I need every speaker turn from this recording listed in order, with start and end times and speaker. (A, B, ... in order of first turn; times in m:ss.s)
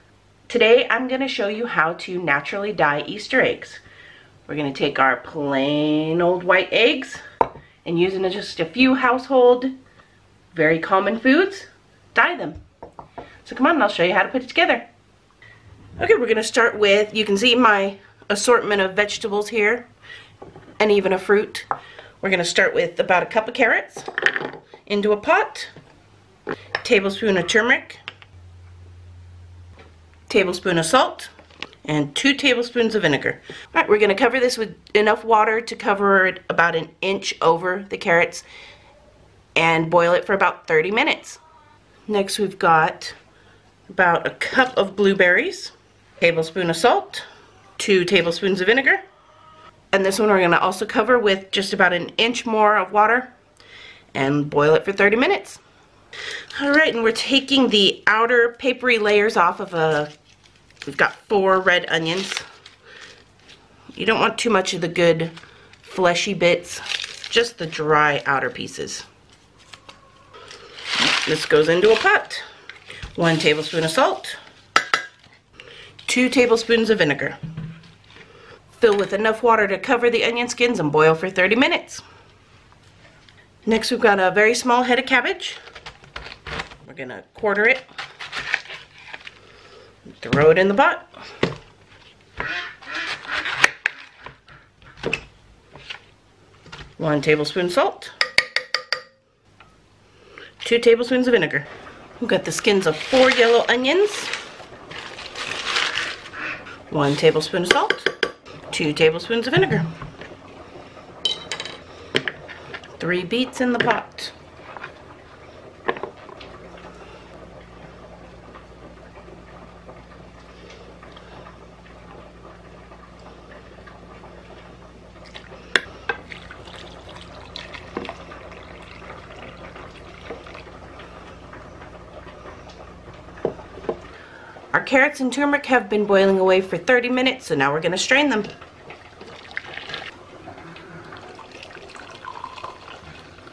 0:00.5-0:03.8 A
0:04.5-0:07.2 A
0:07.8-0:09.7 A
0:10.5-0:12.6 A
0:13.4-0:14.9 A
0:16.0-0:19.9 A
0:20.8-0:21.7 A
0:22.2-0:24.1 A
0:24.8-0:25.7 A
0:26.8-0:28.0 A
0:30.3-0:31.3 A
0:31.8-0:38.4 A
0:39.6-0:41.4 A
0:42.1-0:43.2 A
0:43.9-0:47.2 A
0:47.8-0:49.0 A
0:49.9-0:53.3 A
0:54.1-0:55.6 A
0:56.5-1:00.1 A
1:00.9-1:02.4 A
1:03.9-1:09.0 A
1:11.0-1:12.4 A
1:13.1-1:14.4 A
1:16.0-1:17.4 A
1:18.8-1:22.0 A
1:23.6-1:25.6 A
1:26.8-1:27.8 A
1:30.2-1:31.1 A
1:37.0-1:38.1 A
1:40.6-1:41.7 A
1:42.2-1:44.3 A
1:46.9-1:48.1 A
1:48.7-1:49.9 A
1:53.0-1:54.3 A
2:14.7-2:18.5 A